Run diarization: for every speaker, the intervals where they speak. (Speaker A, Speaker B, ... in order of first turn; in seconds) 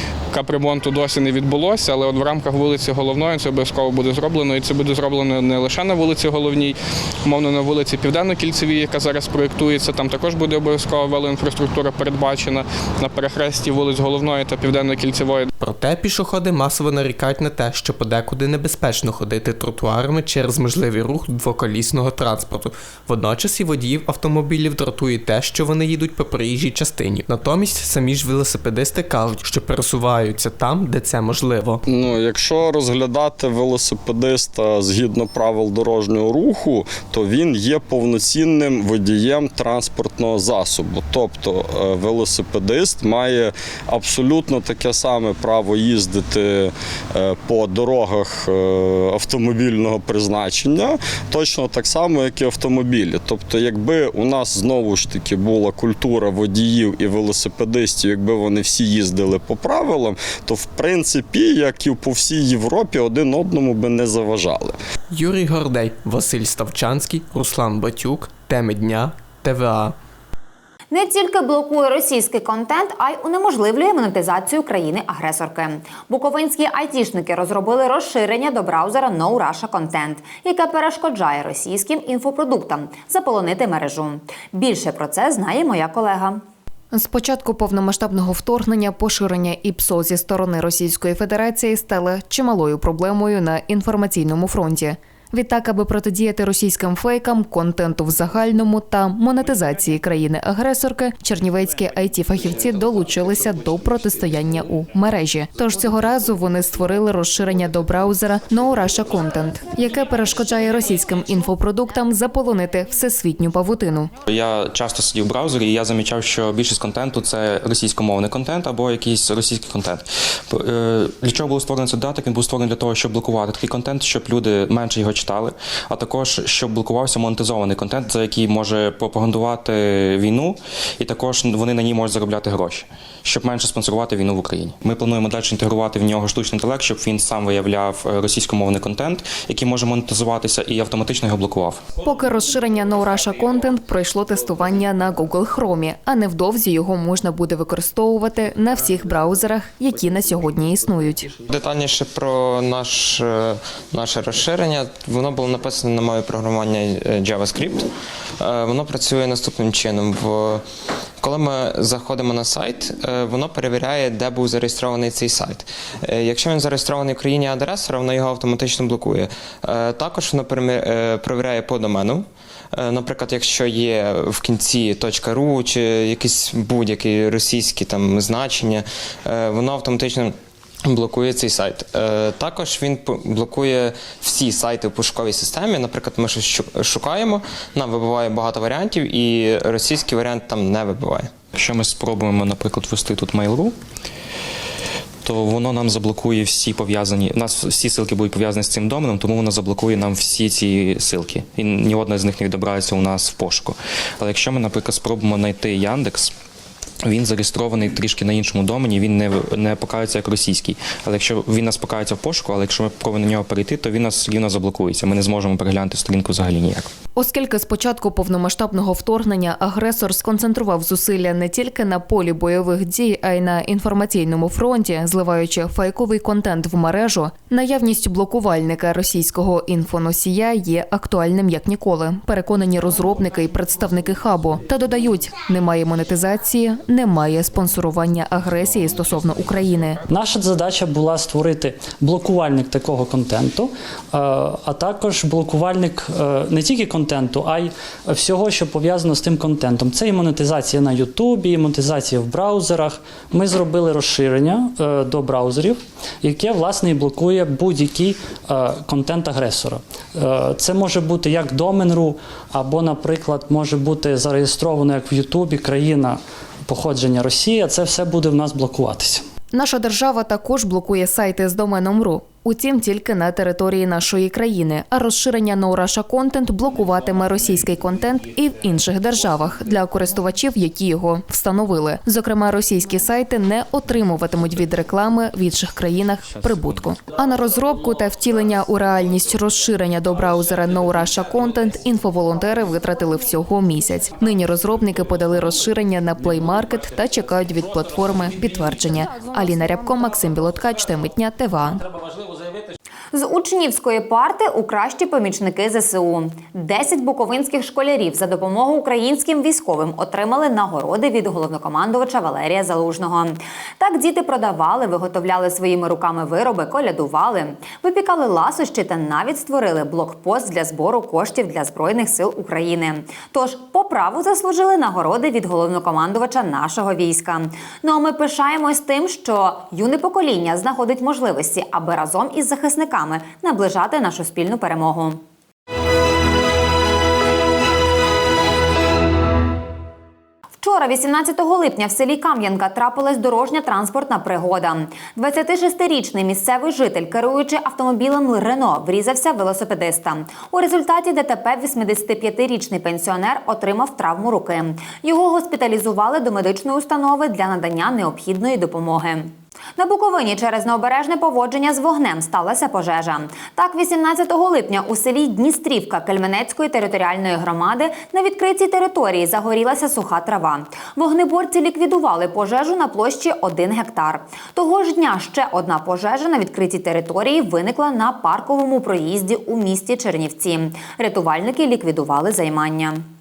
Speaker A: 0.3-15.5
Speaker B: 15.6-31.8, 65.1-70.0
Speaker C: 31.9-64.8
Speaker D: 70.9-86.4, 303.1-335.2, 340.6-383.0
Speaker E: 86.9-114.1, 142.0-151.3, 217.2-240.0, 269.5-301.8
Speaker F: 114.3-141.9, 191.5-193.7, 195.2-206.3, 207.0-216.9
Speaker G: 151.5-157.9, 158.4-160.6, 161.2-180.3, 180.9-191.3
Speaker H: 240.1-269.2